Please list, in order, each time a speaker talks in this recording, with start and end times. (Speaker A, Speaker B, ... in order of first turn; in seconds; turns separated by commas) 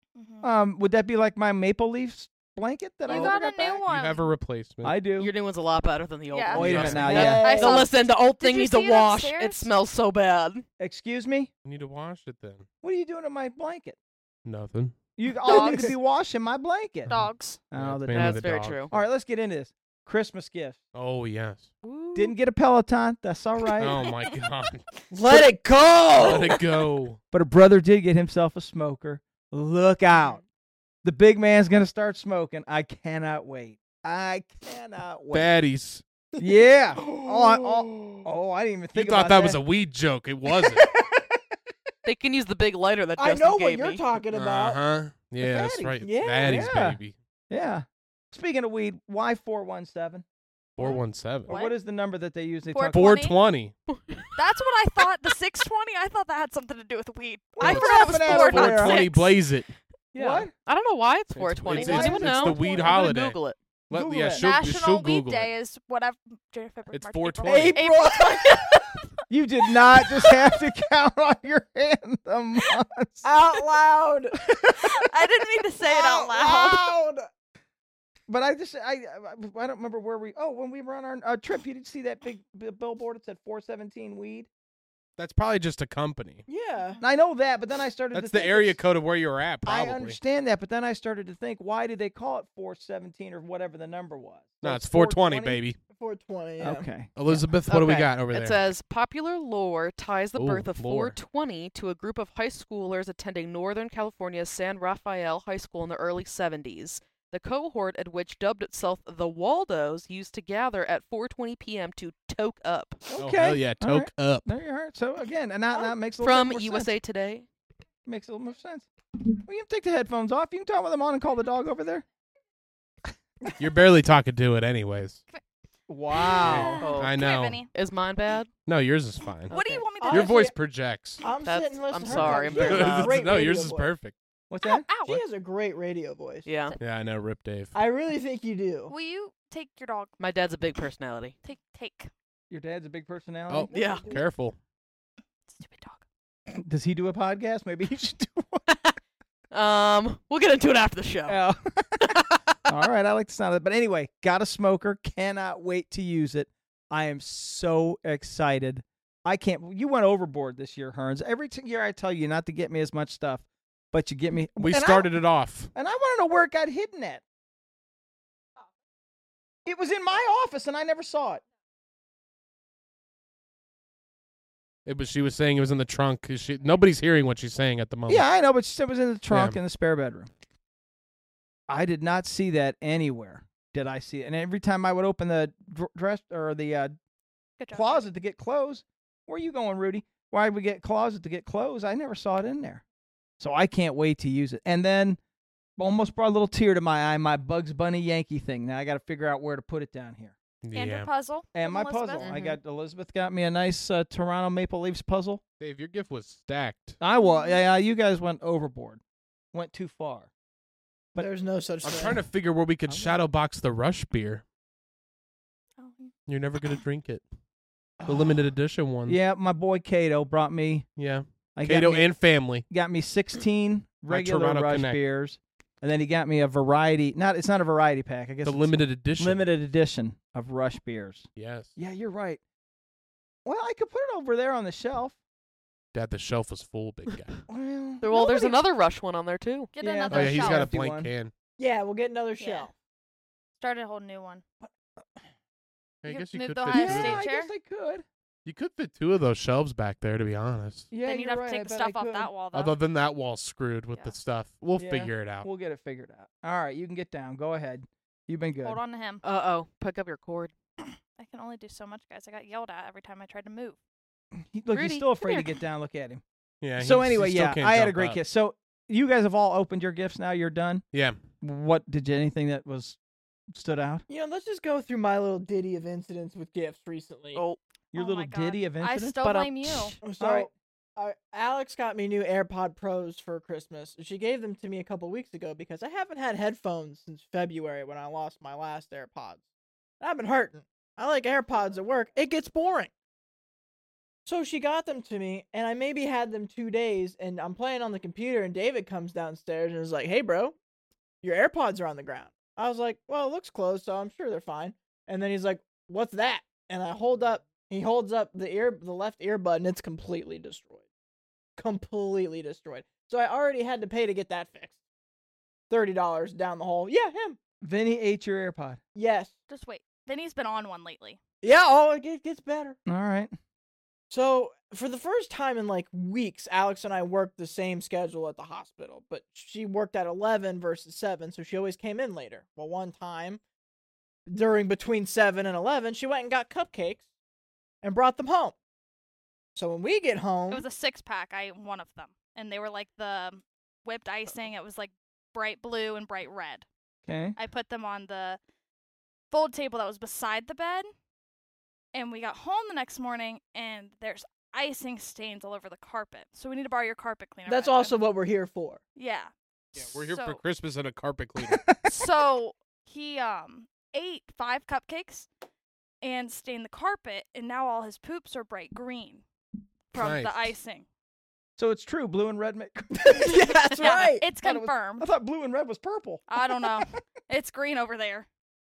Speaker A: 0.1-0.5, Speaker B: 0.4-3.8, Speaker A: 3.1-4.3, Speaker C: 3.9-5.0, Speaker B: 4.8-5.3, Speaker D: 5.1-10.7, Speaker A: 6.3-6.7, Speaker B: 6.5-7.5, Speaker C: 6.5-7.3, Speaker E: 7.0-7.9, Speaker A: 7.4-9.7, Speaker B: 10.8-11.5, Speaker C: 11.6-12.7, Speaker B: 12.8-13.9, Speaker C: 14.4-15.0, Speaker B: 15.2-17.1, Speaker A: 15.4-15.9, Speaker E: 15.4-15.9, Speaker C: 17.1-19.0, Speaker A: 17.1-17.6, Speaker B: 17.7-20.8, Speaker D: 18.1-18.9, Speaker C: 20.9-21.7, Speaker D: 21.8-22.3, Speaker B: 22.1-24.0, Speaker C: 23.8-24.8, Speaker A: 24.0-24.4, Speaker E: 25.1-26.6, Speaker C: 26.1-27.2, Speaker B: 27.3-30.4, Speaker B: 31.0-35.5, Speaker C: 35.3-36.0, Speaker B: 36.4-39.6, Speaker E: 36.9-38.3, Speaker C: 38.9-40.9, Speaker E: 40.5-41.2, Speaker D: 42.0-44.0, Speaker E: 43.2-44.8, Speaker C: 44.3-47.1, Speaker B: 45.4-50.2, Speaker E: 46.0-46.7, Speaker C: 50.8-51.5, Speaker B: 50.8-53.2, Speaker A: 51.5-51.8, Speaker A: 52.7-53.4, Speaker C: 52.9-53.8, Speaker D: 53.9-54.4, Speaker A: 54.4-59.1, Speaker B: 57.6-59.1, Speaker C: 57.6-59.7, Speaker D: 58.1-59.1, Speaker B: 60.1-60.5, Speaker D: 60.1-63.6, Speaker C: 61.3-65.5, Speaker B: 61.7-62.6, Speaker A: 62.3-63.0, Speaker B: 63.9-64.5, Speaker A: 64.3-69.0, Speaker C: 66.9-67.8, Speaker E: 67.5-68.8, Speaker B: 69.3-73.3, Speaker A: 70.0-70.6, Speaker E: 73.2-74.4, Speaker B: 74.5-74.9, Speaker A: 74.8-77.0, Speaker E: 75.9-77.2, Speaker B: 75.9-76.6, Speaker B: 78.3-84.5, Speaker C: 85.2-86.5, Speaker E: 86.5-87.0, Speaker B: 87.0-88.8, Speaker C: 88.1-90.2, Speaker B: 89.6-95.6, Speaker C: 94.6-95.8, Speaker E: 95.9-96.9, Speaker B: 96.6-97.5, Speaker C: 97.1-98.6, Speaker D: 97.7-113.0, Speaker C: 100.3-101.2, Speaker B: 113.1-117.0, Speaker C: 113.2-114.5, Speaker D: 116.2-117.5, Speaker B: 118.0-118.9, Speaker B: 119.4-122.0, Speaker C: 123.6-125.2, Speaker B: 125.9-126.8, Speaker A: 126.1-127.7, Speaker C: 126.4-127.7, Speaker D: 126.8-128.5, Speaker C: 128.6-131.2, Speaker A: 129.5-130.5, Speaker D: 129.5-129.8, Speaker E: 130.0-130.6, Speaker E: 131.2-133.9, Speaker D: 131.4-133.2, Speaker C: 132.1-134.1, Speaker B: 132.1-132.8, Speaker B: 134.5-134.9, Speaker A: 134.6-135.2, Speaker E: 135.0-136.5, Speaker D: 136.4-136.8, Speaker C: 136.8-137.8, Speaker E: 137.7-138.9, Speaker A: 138.9-140.2, Speaker D: 140.2-141.3, Speaker A: 141.4-142.1, Speaker B: 142.5-143.7, Speaker C: 143.5-144.6, Speaker D: 143.7-144.1, Speaker E: 143.7-144.2, Speaker A: 145.5-146.0, Speaker B: 146.5-148.7, Speaker D: 149.5-151.4, Speaker B: 151.3-165.1, Speaker D: 152.0-152.4, Speaker C: 164.6-165.7, Speaker B: 165.7-167.2, Speaker B: 169.6-171.4, Speaker C: 174.8-178.2, Speaker B: 178.1-180.3, Speaker C: 179.3-179.6, Speaker B: 181.7-186.9, Speaker A: 187.6-188.1, Speaker B: 187.7-192.8, Speaker B: 193.4-195.2, Speaker B: 195.8-200.3, Speaker C: 200.6-201.1, Speaker A: 200.7-202.3, Speaker B: 201.5-205.4, Speaker D: 202.2-202.6, Speaker C: 205.6-207.0, Speaker B: 207.0-209.0, Speaker A: 207.2-207.6, Speaker B: 209.5-210.3, Speaker E: 211.2-212.2, Speaker C: 211.8-214.4, Speaker B: 212.9-213.2, Speaker A: 215.8-216.1, Speaker C: 216.3-217.2, Speaker B: 218.0-218.4, Speaker C: 218.0-219.2, Speaker B: 219.1-220.9, Speaker C: 220.9-222.6, Speaker B: 221.5-232.4, Speaker C: 224.1-225.0, Speaker C: 228.4-229.5, Speaker C: 231.3-231.7, Speaker B: 233.4-235.2, Speaker C: 235.9-237.4, Speaker B: 237.5-238.6, Speaker D: 238.0-239.7, Speaker A: 239.7-240.7, Speaker B: 239.8-241.1, Speaker C: 240.1-241.3, Speaker E: 241.6-242.7, Speaker A: 242.4-242.7, Speaker A: 243.6-244.4, Speaker B: 244.6-245.2, Speaker C: 246.0-247.2, Speaker A: 246.1-247.5, Speaker B: 246.7-248.0, Speaker C: 248.4-250.9, Speaker B: 250.9-252.3, Speaker A: 251.0-252.8, Speaker C: 252.5-255.5, Speaker B: 254.8-258.8, Speaker A: 258.6-259.2, Speaker D: 259.2-260.5, Speaker A: 260.8-263.8, Speaker B: 264.3-266.2, Speaker D: 264.7-265.6, Speaker C: 266.6-268.2, Speaker B: 266.8-270.8, Speaker C: 270.9-271.2, Speaker B: 271.4-273.0, Speaker B: 273.5-274.0, Speaker E: 274.1-277.4, Speaker B: 277.9-279.2, Speaker A: 277.9-280.0, Speaker D: 279.2-280.0, Speaker E: 280.0-289.4, Speaker B: 280.2-280.5, Speaker E: 290.0-292.9, Speaker E: 294.2-300.6, Speaker E: 301.2-310.8, Speaker E: 311.6-314.7, Speaker E: 315.7-317.4, Speaker B: 317.6-318.8, Speaker E: 318.9-319.3, Speaker A: 319.5-321.2, Speaker E: 321.4-322.8, Speaker B: 322.9-323.3, Speaker E: 324.1-333.4, Speaker E: 334.3-337.0, Speaker E: 337.8-338.5, Speaker E: 339.5-340.6, Speaker A: 340.5-346.6, Speaker B: 347.1-347.4, Speaker A: 347.4-348.4, Speaker A: 349.3-350.9, Speaker A: 351.9-357.9, Speaker E: 357.5-358.8, Speaker A: 358.9-360.4, Speaker C: 359.7-361.8, Speaker B: 361.4-361.8, Speaker A: 361.8-365.3, Speaker A: 366.0-369.2, Speaker A: 369.9-370.9, Speaker C: 369.9-370.5, Speaker B: 371.6-376.8, Speaker E: 373.1-374.2, Speaker A: 373.8-375.1, Speaker A: 376.3-378.3